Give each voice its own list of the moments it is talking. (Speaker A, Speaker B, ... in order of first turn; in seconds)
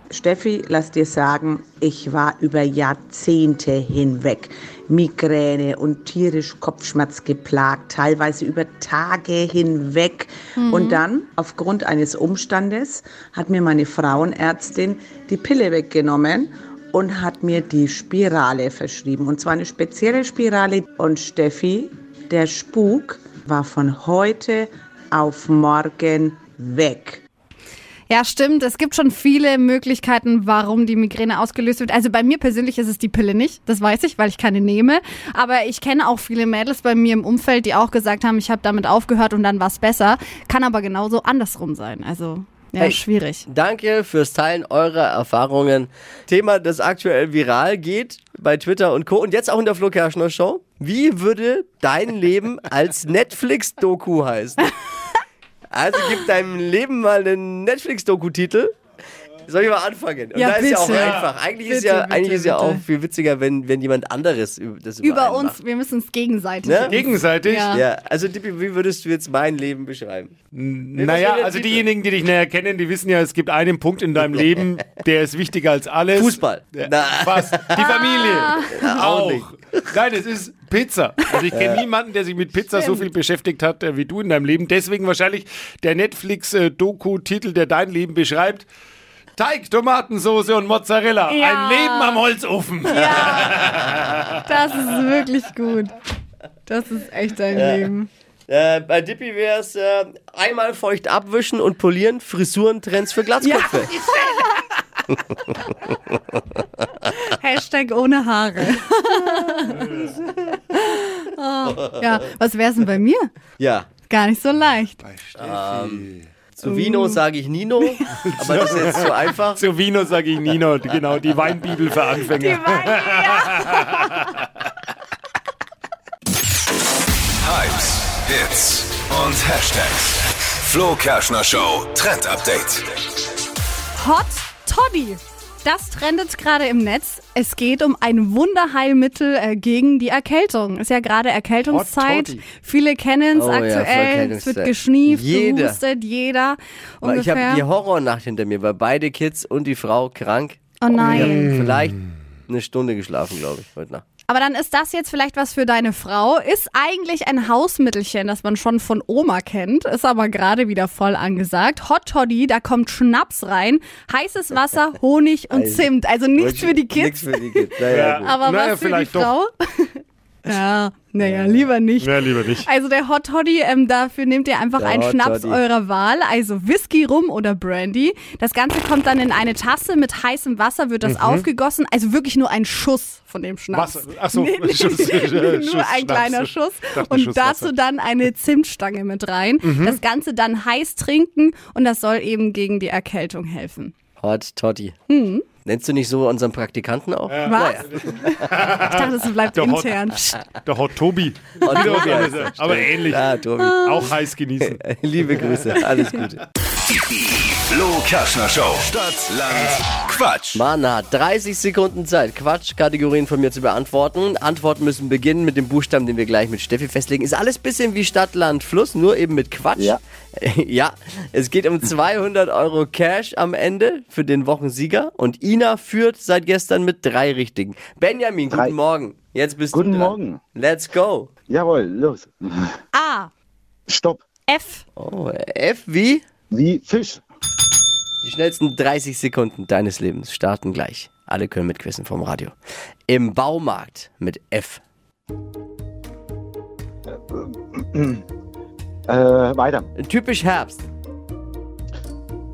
Speaker A: 0.1-27.2
Speaker B: 10.6-11.0, 28.1-43.5, 60.3-62.8, 65.0-67.8, 77.8-78.7, 82.8-83.0, 91.3-92.2, 92.9-93.6, 94.5-95.9, 96.7-98.1, 103.4-104.6, 107.1-113.3, 114.1-115.0, 116.6-117.2, 117.8-118.2, 122.2-124.2, 133.9-147.6, 150.8-151.5, 154.3-193.9, 195.1-195.4, 197.4-200.4, 201.7-202.1, 232.9-233.3, 234.5-234.8
Speaker C: 42.8-54.6, 55.7-58.7, 59.5-65.6, 66.6-67.0, 67.7-70.3, 71.0-71.9, 76.1-77.9, 78.7-79.9, 81.5-81.8, 97.5-97.9, 98.5-103.9, 113.6-113.9, 115.4-119.6, 143.3-145.8, 147.0-154.0, 165.5-168.4, 171.2-171.7, 174.8-175.6, 194.2-194.9, 195.6-198.0, 201.6-204.1, 204.6-206.4, 210.5-231.3, 234.9-236.2, 238.2-242.5, 243.1-244.8, 250.0-250.8
Speaker D: 66.9-67.7, 70.5-88.7, 89.3-94.2, 115.0-116.2, 118.3-124.4, 141.7-142.4, 151.1-151.8, 167.9-169.3, 172.0-172.7, 181.0-181.4, 183.7-187.7, 189.6-190.0, 198.5-199.0, 199.5-199.9, 200.6-204.8
Speaker E: 127.4-132.9, 207.1-210.6
Speaker F: 229.7-230.4, 231.5-232.7, 233.9-234.2, 236.5-237.2, 247.3-248.2, 249.1-249.9